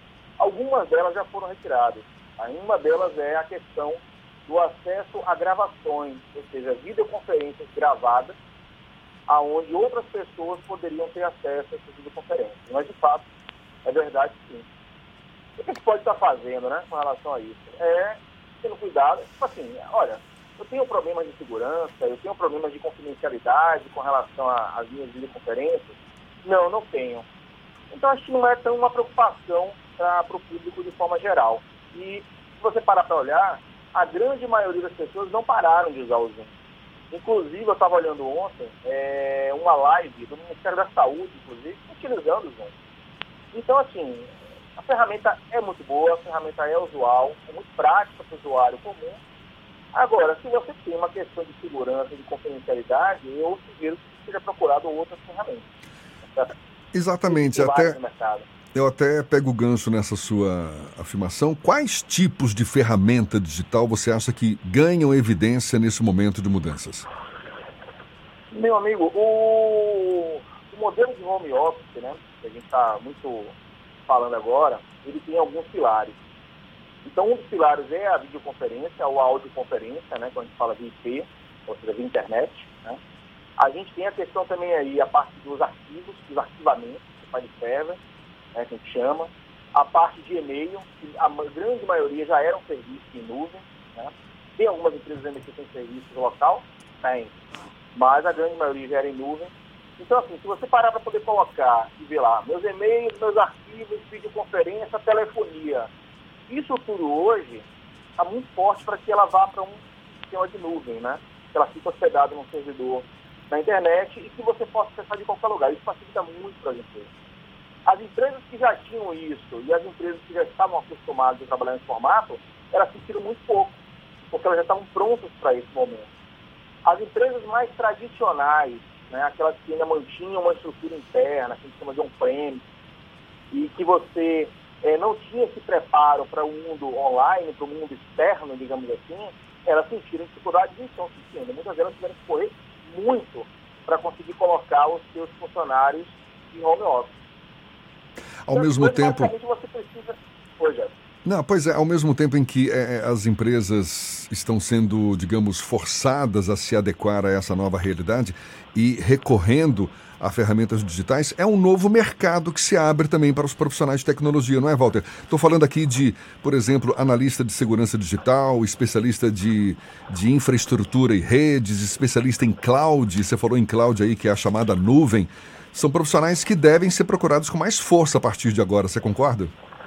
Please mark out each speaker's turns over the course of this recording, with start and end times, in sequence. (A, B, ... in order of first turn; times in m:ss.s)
0:00.4-0:08.3 A
0:09.3-0:13.2 A
0:13.8-0:14.6 A
0:15.6-0:27.2 A
0:27.9-0:36.5 A
0:37.1-0:42.7 A
0:43.5-0:49.2 A
0:49.9-0:55.7 A
0:56.2-0:56.5 A
0:56.9-0:58.0 B
0:57.2-0:58.4 A
0:58.7-1:07.1 B
1:08.5-1:13.5 A
1:14.1-1:16.2 A
1:17.0-1:23.0 A
1:23.6-1:28.0 A
1:28.5-1:37.3 A
1:37.9-1:45.9 A
1:46.5-1:47.6 A
1:48.2-1:57.1 A
1:57.8-2:03.8 A
2:04.3-2:06.1 A
2:06.8-2:12.6 A
2:13.5-2:27.1 A
2:28.4-2:29.3 B
2:28.5-2:30.9 A
2:31.2-2:59.5 B